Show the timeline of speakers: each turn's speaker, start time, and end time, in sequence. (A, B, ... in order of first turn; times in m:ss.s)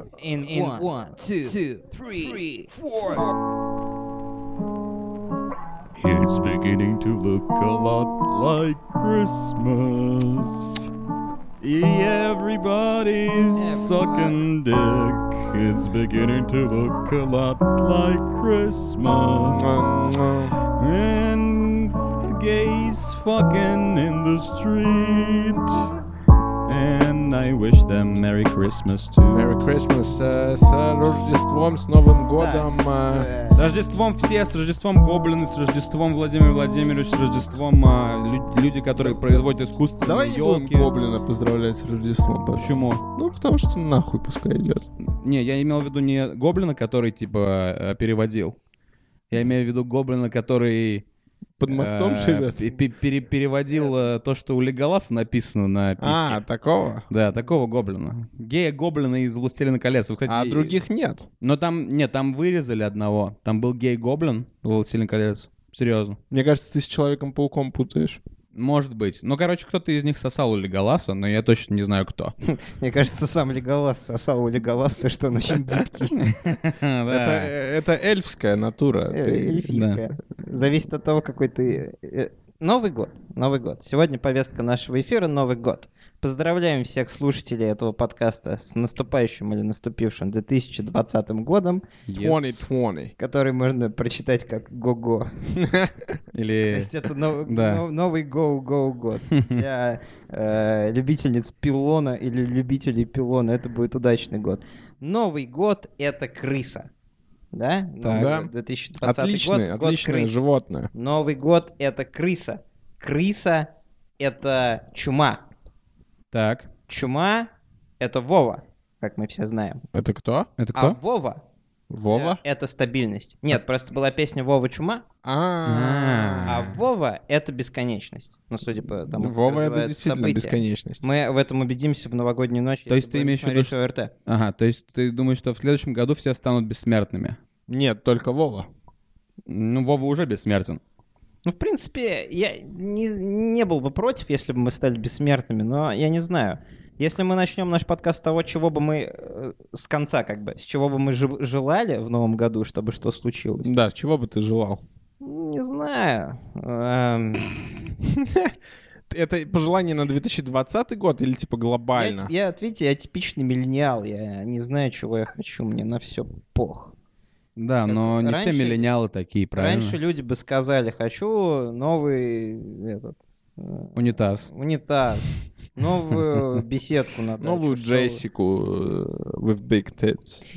0:00.2-0:03.2 A
0:06.0-0:10.9 B
0:11.6-0:19.9 B
0:13.5-0:14.4 A
0:19.5-0:20.6 C
0:20.6-0:25.9 B
0:26.7-0:29.5 B
0:29.3-0:33.3 C
0:32.4-0:33.6 A
0:33.5-0:40.9 B
0:39.0-0:39.4 C
0:40.0-0:44.9 C
0:42.6-0:43.0 B
0:45.2-0:48.6 B
0:49.3-0:51.0 B
0:51.6-0:52.8 C
0:51.7-0:56.4 B
0:53.7-0:54.0 A
0:56.0-0:57.1 C
0:57.1-1:00.8 B
1:00.3-1:01.3 C
1:01.4-1:06.2 B
1:06.3-1:08.2 C
1:08.5-1:12.3 B
1:12.5-1:16.4 A
1:16.2-1:17.5 B
1:17.1-1:19.7 C
1:19.1-1:31.9 A
1:19.7-1:20.0 B
1:32.1-1:32.6 B
1:32.1-1:33.1 C
1:33.2-1:35.3 A
1:35.5-1:36.2 C
1:36.3-1:37.8 B
1:36.7-1:46.9 A
1:39.3-1:39.6 B
1:47.5-1:50.4 A
1:48.0-1:48.5 C
1:49.0-1:50.9 C
1:50.9-1:55.4 A
1:56.3-1:56.7 B
1:56.9-1:57.5 A
1:58.0-1:59.8 A
1:59.9-2:00.5 C
2:00.6-2:01.0 B
2:00.7-2:01.4 A
2:01.9-2:02.4 C
2:02.1-2:05.0 A
2:05.2-2:06.6 C
2:05.6-2:06.8 B
2:06.5-2:14.1 A
2:09.2-2:11.0 C
2:12.9-2:13.7 B
2:14.2-2:17.4 B
2:17.7-2:18.7 C
2:19.5-2:20.8 B
2:21.4-2:33.7 A
2:33.6-2:34.8 C
2:35.2-2:37.6 A
2:38.0-2:38.6 C
2:39.1-2:42.3 C
2:41.9-2:46.9 A
2:47.6-2:50.0 B
2:47.9-2:48.8 A
2:49.5-2:58.2 A
2:53.9-2:54.5 B
2:57.4-3:00.4 C